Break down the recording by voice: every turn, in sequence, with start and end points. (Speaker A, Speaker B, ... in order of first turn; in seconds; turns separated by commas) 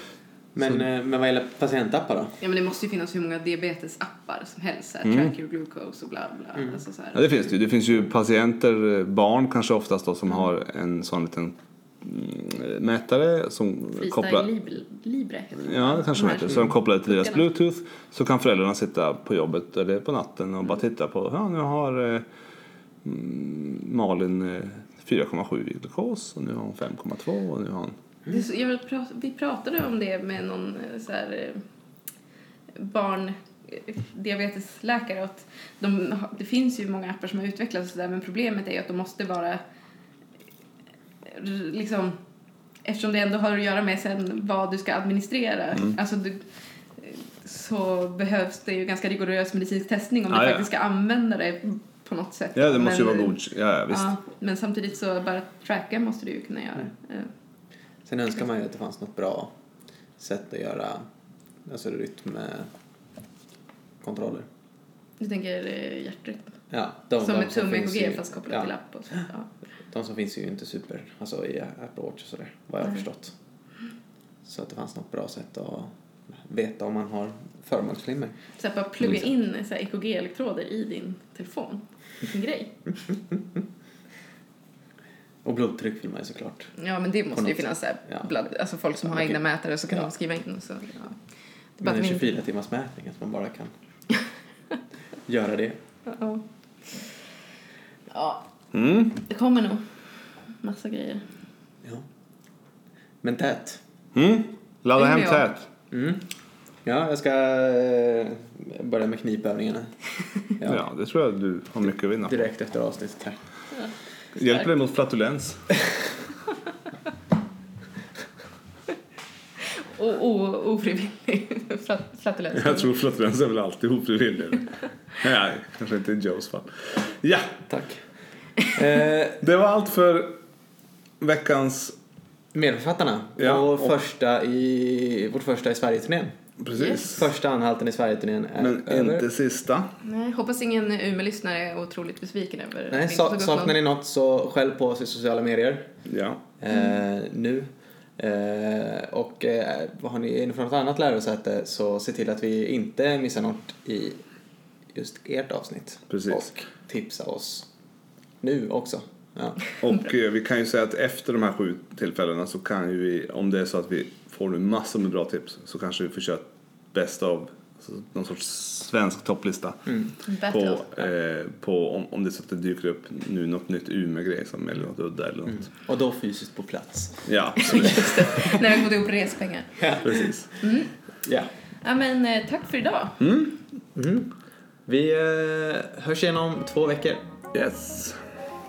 Speaker A: 0.6-2.4, Speaker B: 2.4-7.2, Speaker C: 5.0-5.3, Speaker C: 7.1-14.5, Speaker B: 14.0-17.4, Speaker C: 15.6-22.2, Speaker C: 23.0-28.0, Speaker B: 28.3-31.6, Speaker B: 32.8-39.6, Speaker B: 41.3-42.2, Speaker B: 42.8-46.4, Speaker B: 47.0-57.3, Speaker C: 50.3-50.7, Speaker C: 52.5-54.1, Speaker A: 58.1-59.5, Speaker A: 60.2-61.1, Speaker A: 61.7-62.7, Speaker A: 64.0-64.5, Speaker B: 65.2-66.6, Speaker A: 66.7-68.7, Speaker B: 67.2-69.5, Speaker A: 69.9-73.3, Speaker A: 74.5-78.4, Speaker B: 78.6-82.8, Speaker A: 85.4-86.7, Speaker B: 86.8-91.2, Speaker A: 87.3-88.3, Speaker A: 89.1-89.4, Speaker B: 91.8-92.3, Speaker A: 91.8-93.7, Speaker A: 95.3-95.8, Speaker B: 96.1-97.0, Speaker B: 98.1-98.5, Speaker C: 98.7-99.2, Speaker B: 99.2-99.9, Speaker B: 100.6-101.3, Speaker A: 103.2-103.8, Speaker C: 104.1-105.7, Speaker B: 105.0-105.5, Speaker A: 105.9-106.3, Speaker A: 106.8-110.0, Speaker A: 110.5-110.8, Speaker C: 110.6-112.4, Speaker A: 112.3-113.4, Speaker C: 114.4-115.6, Speaker B: 119.6-122.9, Speaker C: 122.5-127.7, Speaker A: 127.7-128.0, Speaker A: 128.7-129.4, Speaker C: 129.4-130.4, Speaker C: 131.2-132.0, Speaker A: 132.5-139.3, Speaker C: 133.4-133.9, Speaker C: 136.6-137.2, Speaker C: 138.6-139.9, Speaker B: 140.0-143.8, Speaker A: 142.9-145.9, Speaker C: 146.1-146.4, Speaker A: 146.6-154.2, Speaker A: 154.9-157.7, Speaker C: 156.1-156.5, Speaker A: 158.4-159.6, Speaker C: 159.8-175.7, Speaker B: 170.3-171.0, Speaker A: 175.5-177.9, Speaker C: 177.3-178.3, Speaker B: 177.6-180.0, Speaker A: 179.8-180.7, Speaker C: 180.0-180.5, Speaker B: 180.6-180.9, Speaker A: 181.2-181.5, Speaker B: 181.8-183.2, Speaker C: 183.2-183.6, Speaker A: 183.9-184.3, Speaker A: 184.9-187.3, Speaker C: 187.5-188.2